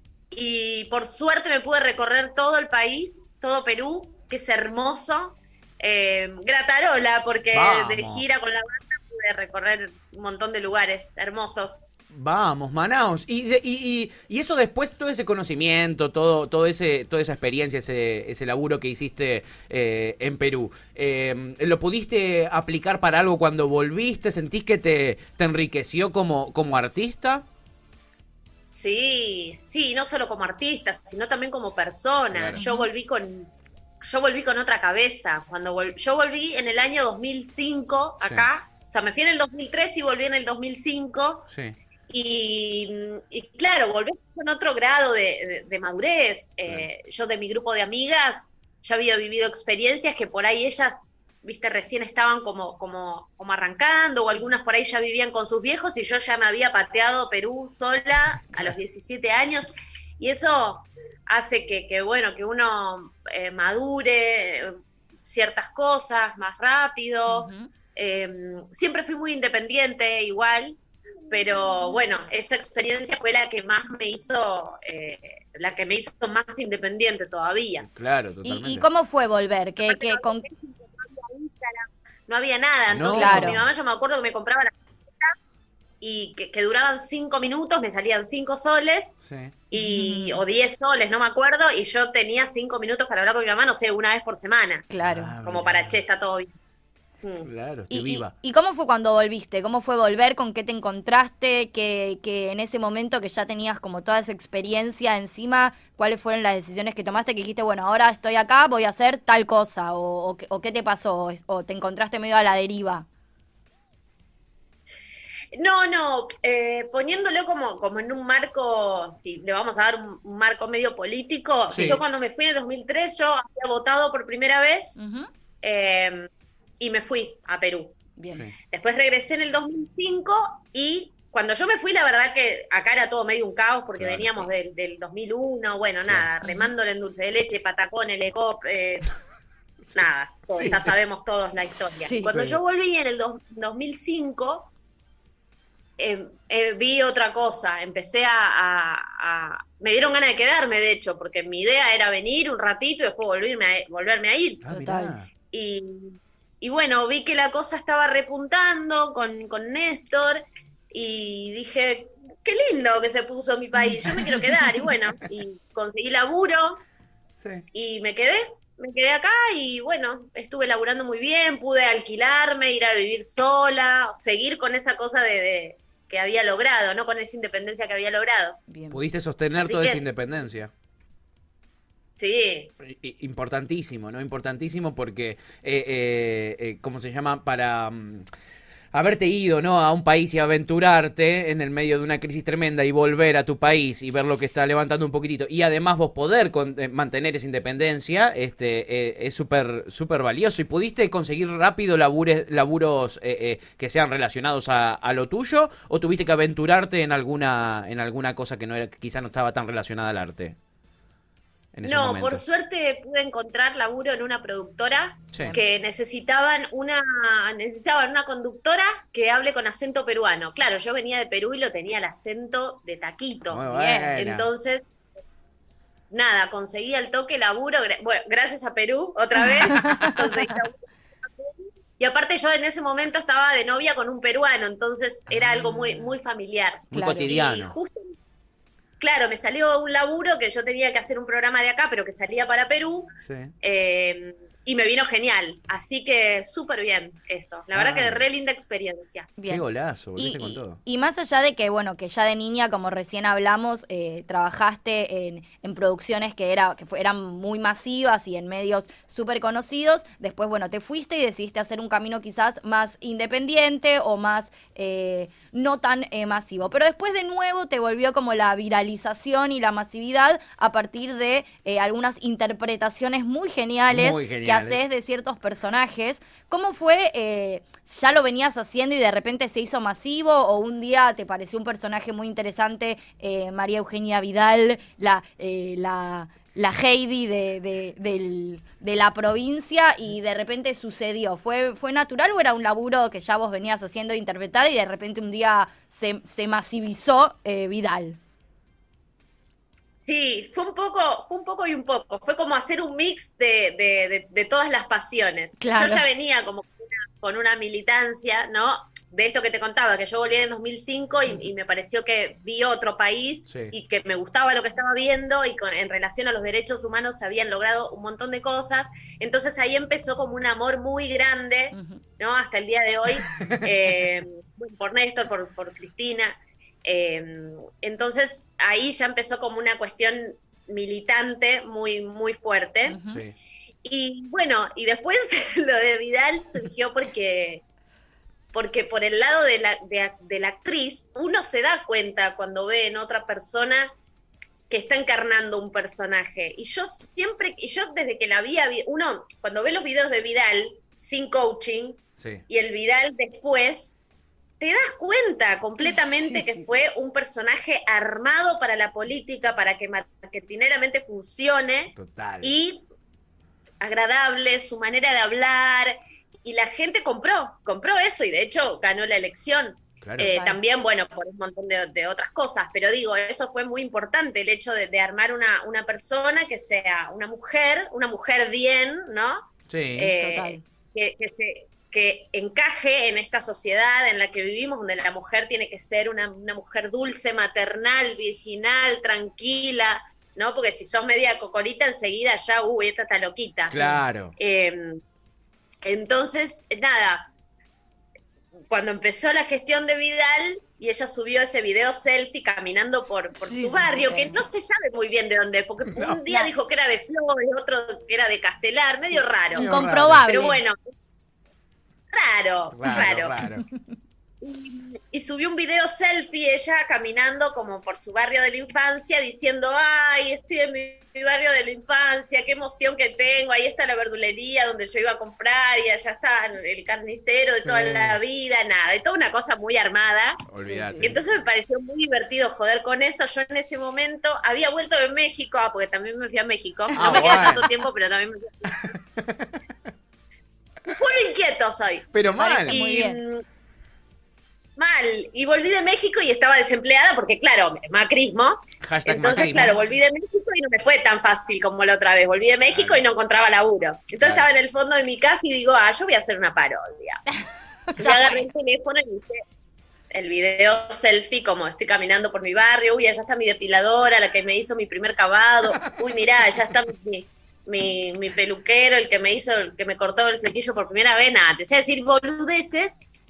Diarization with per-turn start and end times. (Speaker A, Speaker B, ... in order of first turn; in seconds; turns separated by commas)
Speaker A: 0.3-11.9, Speaker B: 7.5-8.2, Speaker B: 12.1-27.4, Speaker A: 28.7-33.5, Speaker B: 32.3-32.6, Speaker C: 32.5-32.9, Speaker A: 34.0-41.5, Speaker B: 38.2-38.5, Speaker B: 41.5-41.8, Speaker A: 42.1-70.8, Speaker C: 67.3-67.7, Speaker A: 71.3-77.9, Speaker B: 77.8-78.8, Speaker C: 78.4-80.4, Speaker A: 79.8-85.3, Speaker B: 82.9-83.7, Speaker C: 83.1-83.6, Speaker A: 86.0-89.2, Speaker B: 89.2-89.5, Speaker A: 89.7-94.9, Speaker C: 89.7-90.4, Speaker C: 94.9-95.3, Speaker B: 95.0-96.0, Speaker A: 95.4-96.5, Speaker A: 97.2-97.5, Speaker B: 97.4-98.3, Speaker C: 97.9-113.0, Speaker A: 115.5-125.0, Speaker B: 121.7-122.0, Speaker C: 125.0-125.3, Speaker A: 125.6-126.3, Speaker A: 126.8-128.0, Speaker C: 128.2-128.4, Speaker A: 128.7-139.1, Speaker B: 134.0-134.5, Speaker C: 136.4-136.7, Speaker B: 139.8-140.9, Speaker A: 139.9-144.7, Speaker C: 140.5-140.8, Speaker C: 141.7-142.3, Speaker B: 142.2-142.6, Speaker A: 146.0-154.7, Speaker B: 154.6-155.3, Speaker C: 154.7-155.1, Speaker A: 155.5-166.8, Speaker B: 167.4-167.6, Speaker A: 167.7-178.6, Speaker C: 178.7-179.0, Speaker B: 178.9-180.7, Speaker A: 179.6-180.0, Speaker A: 182.2-182.7, Speaker B: 182.8-188.2, Speaker B: 188.9-210.6, Speaker B: 211.7-212.4, Speaker A: 211.8-224.8, Speaker B: 215.3-215.6, Speaker B: 223.5-224.5, Speaker C: 223.7-224.2, Speaker A: 226.1-238.1, Speaker C: 229.4-230.5, Speaker B: 235.3-236.1, Speaker B: 236.9-237.7, Speaker C: 236.9-237.3, Speaker A: 239.0-249.3, Speaker B: 243.2-243.5, Speaker B: 247.7-248.2, Speaker C: 249.4-298.2, Speaker B: 249.5-250.8, Speaker B: 273.9-274.8, Speaker A: 300.1-333.0, Speaker C: 305.6-306.0, Speaker B: 313.5-313.7, Speaker C: 321.7-322.0, Speaker B: 323.3-323.7, Speaker C: 332.9-333.2, Speaker A: 333.8-337.6, Speaker A: 338.5-343.9, Speaker A: 344.7-354.0, Speaker B: 352.2-352.4, Speaker A: 354.6-362.8, Speaker C: 355.8-356.7, Speaker B: 361.9-362.5, Speaker A: 363.8-393.8, Speaker B: 370.0-370.3, Speaker C: 370.2-370.6, Speaker B: 379.7-380.1, Speaker C: 380.2-380.6, Speaker B: 393.7-394.3, Speaker C: 393.7-394.0, Speaker A: 394.4-395.0, Speaker A: 395.8-397.3, Speaker A: 398.7-409.7, Speaker C: 403.4-404.4, Speaker B: 405.9-406.2, Speaker C: 409.0-410.6, Speaker B: 409.5-410.2, Speaker A: 410.3-410.8, Speaker A: 412.1-413.4, Speaker B: 412.7-413.6, Speaker A: 414.4-430.4, Speaker B: 427.6-428.2, Speaker B: 430.5-431.3, Speaker C: 430.6-431.1, Speaker A: 431.0-438.9, Speaker C: 436.9-437.6, Speaker B: 436.9-437.7, Speaker B: 438.7-439.5, Speaker A: 440.9-442.1, Speaker B: 442.1-442.8, Speaker C: 442.4-443.2, Speaker A: 442.7-443.4, Speaker A: 444.8-457.2, Speaker B: 448.8-449.8, Speaker B: 452.7-453.0, Speaker B: 454.2-454.5, Speaker C: 457.9-458.4, Speaker A: 458.0-459.4, Speaker A: 460.1-473.0